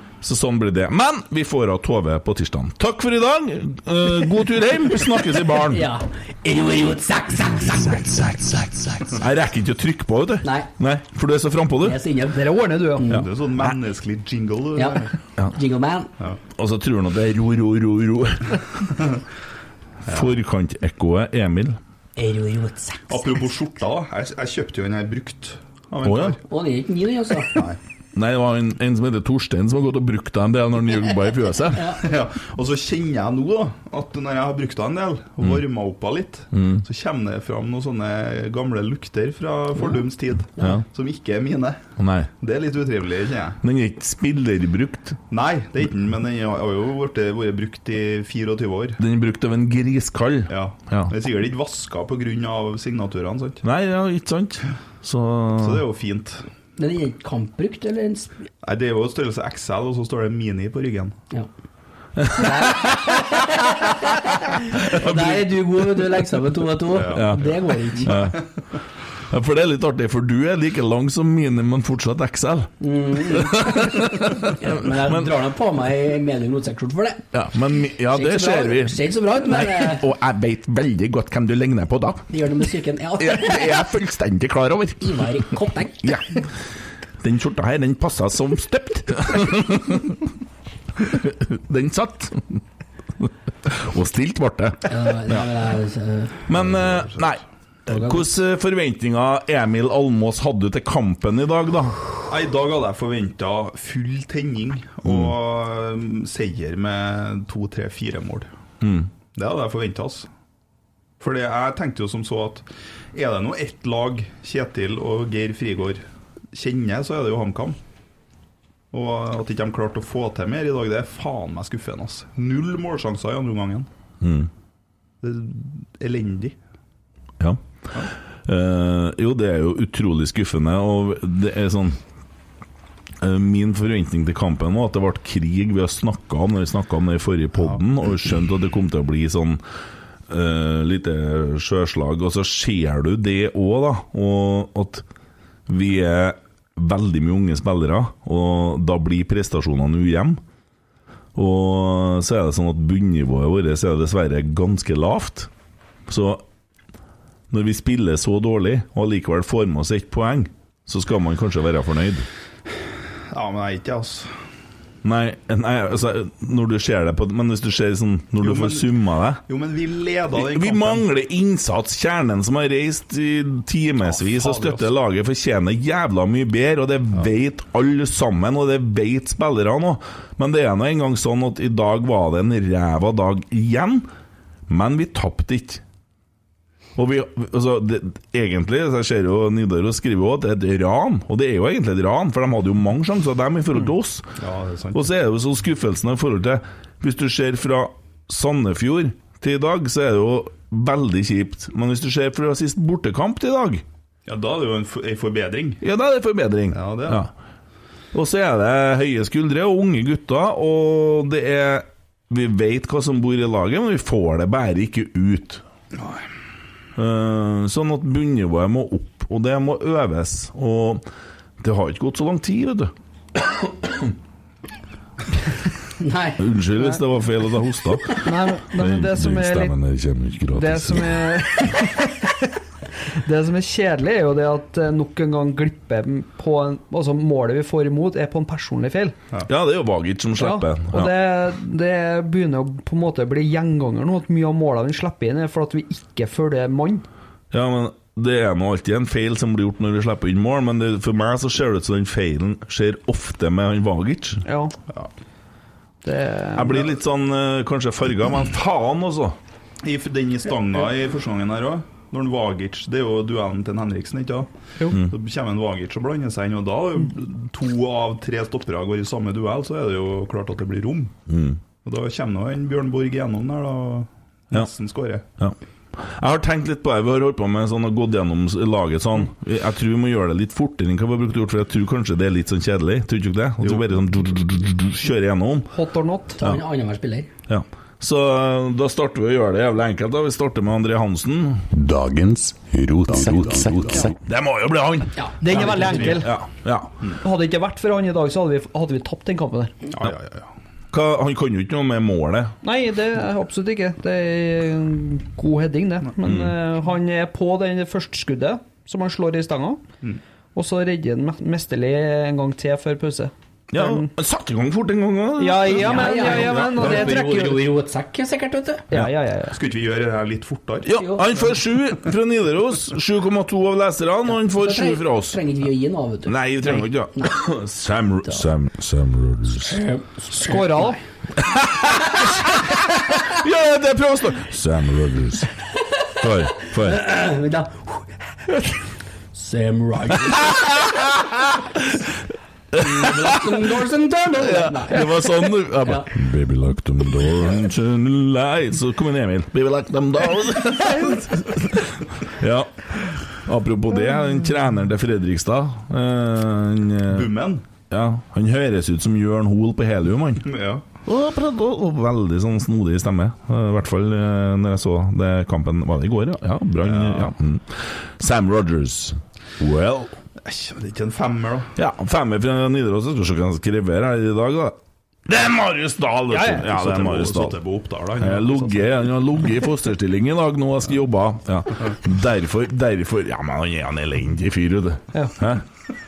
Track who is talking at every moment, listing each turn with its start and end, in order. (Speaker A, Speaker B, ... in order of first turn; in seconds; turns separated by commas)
Speaker A: 0.2-5.8, Speaker B: 5.7-9.1, Speaker A: 9.1-12.0, Speaker B: 10.4-10.7, Speaker B: 11.8-13.3, Speaker C: 12.3-13.1, Speaker D: 13.1-15.1, Speaker A: 13.1-13.8, Speaker B: 14.8-16.1, Speaker A: 16.6-18.9, Speaker A: 20.1-21.8, Speaker B: 22.2-23.1, Speaker D: 23.1-26.4, Speaker A: 26.0-26.4, Speaker B: 26.5-27.6, Speaker D: 27.5-27.8, Speaker A: 28.1-31.9, Speaker B: 31.7-32.0, Speaker D: 32.0-41.9, Speaker A: 36.5-36.8, Speaker A: 42.0-42.3, Speaker D: 42.4-43.6, Speaker A: 43.6-45.2, Speaker D: 45.3-49.0, Speaker A: 49.0-51.1, Speaker D: 50.5-53.6, Speaker A: 53.6-55.8, Speaker D: 55.6-56.4, Speaker B: 56.8-58.3, Speaker D: 58.6-61.2, Speaker A: 62.2-63.5, Speaker B: 62.3-68.2, Speaker A: 64.5-65.5, Speaker D: 66.9-68.4, Speaker A: 67.1-67.5, Speaker A: 68.0-68.4, Speaker A: 69.3-75.3, Speaker B: 72.8-77.3, Speaker A: 77.3-82.3, Speaker B: 78.1-80.1, Speaker B: 82.3-83.9, Speaker A: 83.2-86.5, Speaker B: 85.0-86.2, Speaker A: 87.2-90.2, Speaker A: 91.0-92.6, Speaker A: 93.2-95.5, Speaker B: 94.9-96.8, Speaker A: 96.5-102.0, Speaker B: 97.9-98.3, Speaker D: 102.3-108.5, Speaker A: 105.0-105.3, Speaker A: 108.8-109.1, Speaker D: 109.3-110.3, Speaker D: 111.2-117.8, Speaker D: 118.9-123.9, Speaker A: 124.2-124.5, Speaker D: 125.2-126.5, Speaker A: 128.4-132.0, Speaker A: 133.2-139.6, Speaker A: 140.3-145.1, Speaker A: 145.7-150.4, Speaker A: 151.3-155.5, Speaker A: 156.1-156.4, Speaker A: 157.5-162.3, Speaker D: 163.3-164.3, Speaker A: 165.0-169.4, Speaker D: 168.4-168.9, Speaker D: 169.4-171.0, Speaker A: 170.3-184.1, Speaker D: 174.1-174.9, Speaker A: 184.7-185.8, Speaker A: 187.0-194.3, Speaker D: 194.4-195.1, Speaker A: 194.9-203.8, Speaker D: 204.3-205.8, Speaker A: 205.8-207.3, Speaker D: 206.7-207.3, Speaker A: 208.1-215.6, Speaker D: 215.9-216.2, Speaker A: 217.0-221.0, Speaker A: 221.6-224.1, Speaker B: 226.0-226.4, Speaker A: 226.4-231.4, Speaker C: 228.1-229.7, Speaker C: 230.5-232.4, Speaker C: 233.2-239.2, Speaker A: 239.5-241.1, Speaker C: 240.4-247.1, Speaker A: 247.5-254.4, Speaker C: 254.5-254.8, Speaker C: 256.0-256.9, Speaker A: 256.6-259.4, Speaker D: 259.8-271.1, Speaker A: 271.3-271.6, Speaker D: 271.8-275.2, Speaker A: 275.4-285.7, Speaker D: 283.6-283.9, Speaker C: 285.7-286.4, Speaker B: 286.4-287.3, Speaker A: 287.5-291.7, Speaker E: 291.7-294.2, Speaker A: 294.2-296.9, Speaker B: 295.2-296.2, Speaker C: 295.4-296.3, Speaker C: 297.2-299.8, Speaker D: 299.9-300.5, Speaker A: 300.9-302.6, Speaker C: 302.6-309.8, Speaker A: 306.2-306.6, Speaker C: 310.6-314.1, Speaker A: 313.7-317.2, Speaker C: 315.4-317.6, Speaker B: 315.7-318.9, Speaker C: 318.9-319.6, Speaker D: 319.5-320.9, Speaker A: 320.8-325.4, Speaker B: 320.9-321.3, Speaker B: 324.3-327.3, Speaker A: 326.3-329.8, Speaker B: 329.6-330.9, Speaker C: 330.4-331.0, Speaker A: 331.4-335.5, Speaker A: 336.2-337.0, Speaker B: 336.6-338.1, Speaker B: 339.3-341.0, Speaker A: 340.5-342.0, Speaker A: 342.7-343.8, Speaker B: 342.7-345.2, Speaker A: 344.4-357.3, Speaker B: 345.8-346.1, Speaker D: 357.1-357.6, Speaker A: 357.9-360.5, Speaker D: 360.4-360.9, Speaker A: 361.1-370.2, Speaker D: 366.8-367.3, Speaker D: 370.4-371.7, Speaker A: 371.8-377.6, Speaker C: 376.3-376.7, Speaker D: 376.7-378.9, Speaker A: 378.2-385.6